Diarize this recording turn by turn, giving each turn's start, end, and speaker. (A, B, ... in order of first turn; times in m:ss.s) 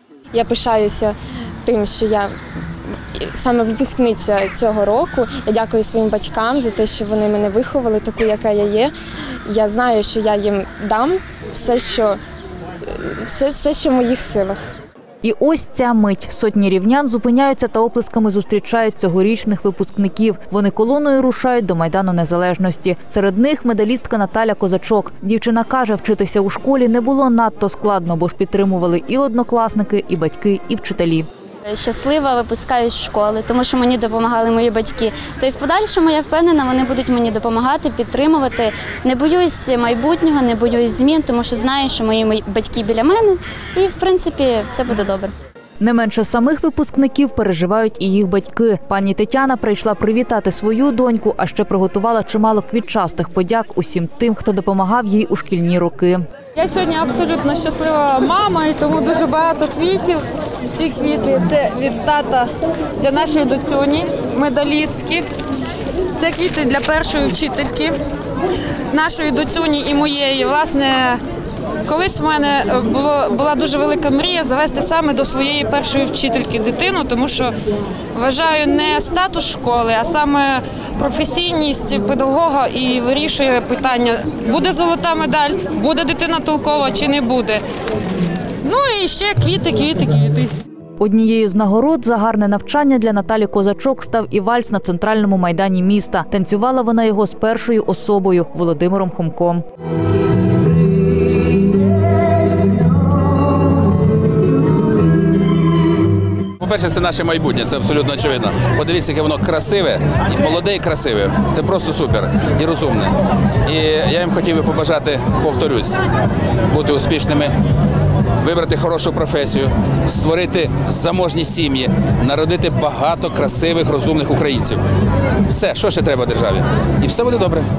0:00.3-0:02.3 A
0:03.1-0:08.9 A
0:09.4-0:12.2 A
0:12.8-0:14.6 A
0:15.2-0:31.3 B
0:31.7-0:45.3 C
0:45.8-0:56.2 B
0:56.6-1:05.2 D
1:06.2-1:08.0 D
1:08.9-1:11.2 D
1:11.9-1:17.5 D
1:18.2-1:27.6 D
1:28.6-1:30.5 D
1:31.0-1:39.6 B
1:46.6-1:53.1 E
1:53.6-1:56.0 E
1:56.7-1:57.5 E
1:58.4-2:04.8 E
2:05.5-2:07.7 E